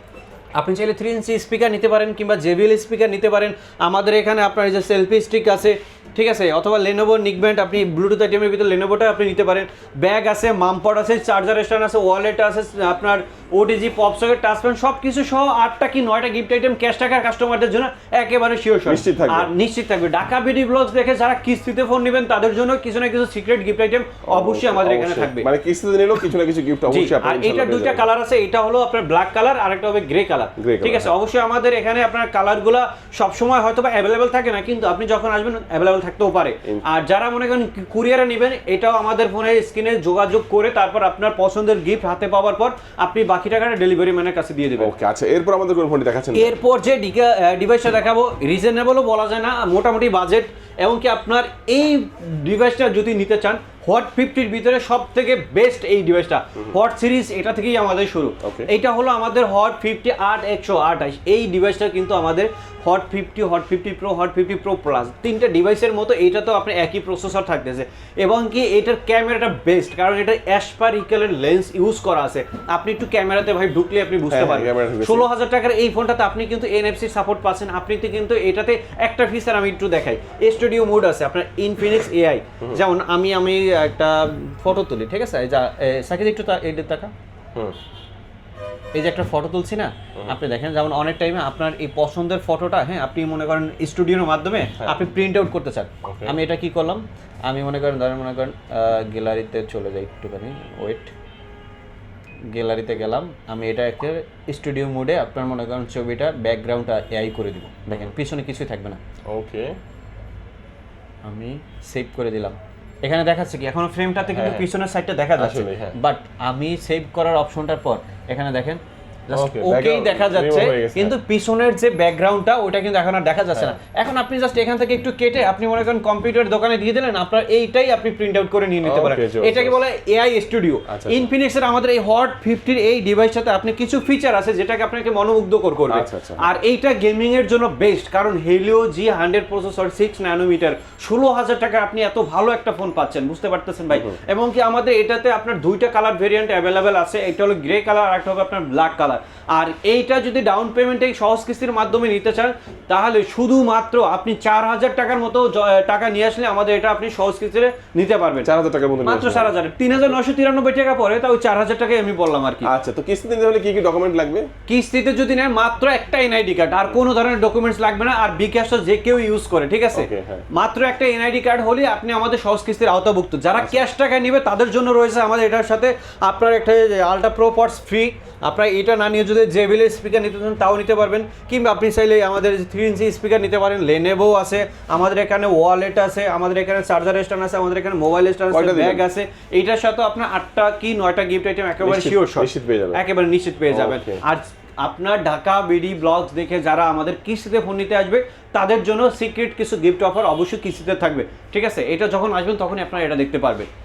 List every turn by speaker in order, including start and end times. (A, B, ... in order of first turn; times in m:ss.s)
0:00.6-0:25.5 A
0:18.9-0:19.5 B
0:24.3-0:28.1 B
0:26.9-0:44.9 A
0:30.6-0:31.1 B
0:44.8-0:46.6 B
0:46.3-1:27.1 A
0:58.4-0:58.7 B
1:14.3-1:15.3 B
1:29.0-1:41.1 A
1:36.0-1:36.4 B
1:42.5-1:49.0 A
1:49.3-1:49.8 B
1:51.2-2:38.5 A
1:54.3-1:54.7 B
1:55.4-1:56.0 B
1:59.3-2:01.2 B
2:08.8-2:09.8 B
2:10.9-2:11.3 B
2:15.9-2:16.5 B
2:23.9-2:24.2 B
2:38.4-2:39.5 B
2:39.0-2:42.7 A
2:42.6-2:44.5 B
2:44.7-3:23.7 A
2:49.9-2:50.5 B
3:08.5-3:09.0 B
3:11.8-3:13.0 B
3:13.7-3:14.2 B